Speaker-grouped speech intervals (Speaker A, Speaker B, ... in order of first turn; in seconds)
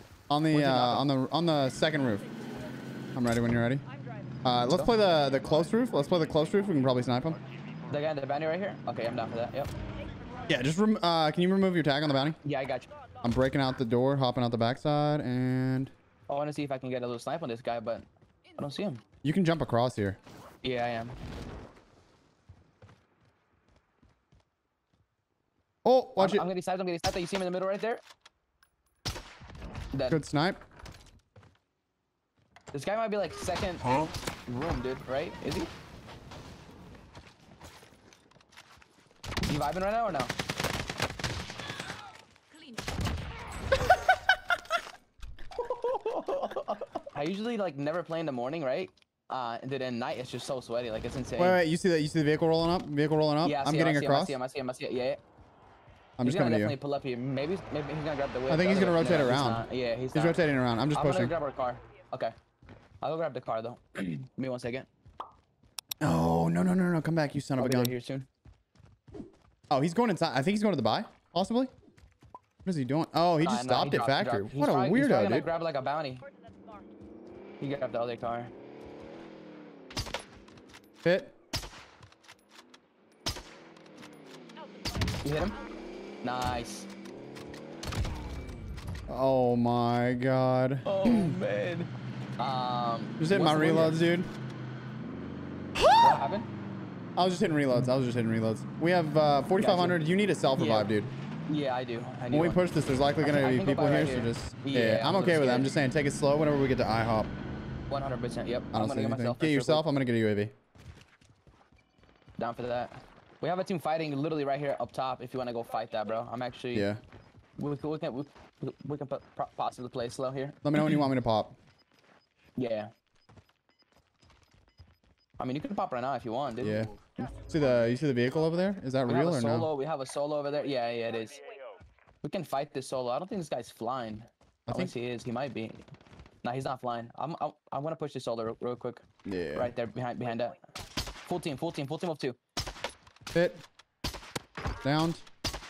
Speaker A: 0.3-2.2, 3.1-3.8, 4.4-7.4, 10.5-12.4, 13.2-15.9, 19.2-20.2, 25.8-26.4, 30.1-30.6, 51.4-54.4, 56.2-56.8, 58.5-61.3, 66.0-67.9, 69.7-71.7, 72.6-75.5, 81.0-81.3, 89.1-91.4, 93.2-94.3, 95.8-96.2, 97.2-101.1, 102.3-107.3, 108.7-110.5, 116.7-117.0, 120.6-121.6, 126.6-129.7, 134.7-134.9, 139.2-139.7, 143.3-143.6, 144.8-145.2
Speaker B: 0.5-1.1, 7.9-9.7, 12.4-12.9, 16.3-18.1, 18.6-19.0, 20.6-21.2, 26.2-28.0, 29.9-30.2, 32.7-35.7, 39.4-40.3, 45.5-51.6, 53.4-55.2, 56.2-62.3, 63.0-64.9, 67.6-68.3, 73.4-76.2, 77.6-78.5, 85.2-85.6, 86.2-86.9, 90.8-94.0, 96.0-96.5, 99.6-100.0, 100.5-100.9, 101.5-102.6, 103.2-105.7, 107.9-109.8, 112.4-116.8, 117.6-120.9, 122.5-122.9, 125.4-126.9, 129.1-131.5, 132.2-135.8, 136.4-139.0, 139.5-140.6, 141.2-142.4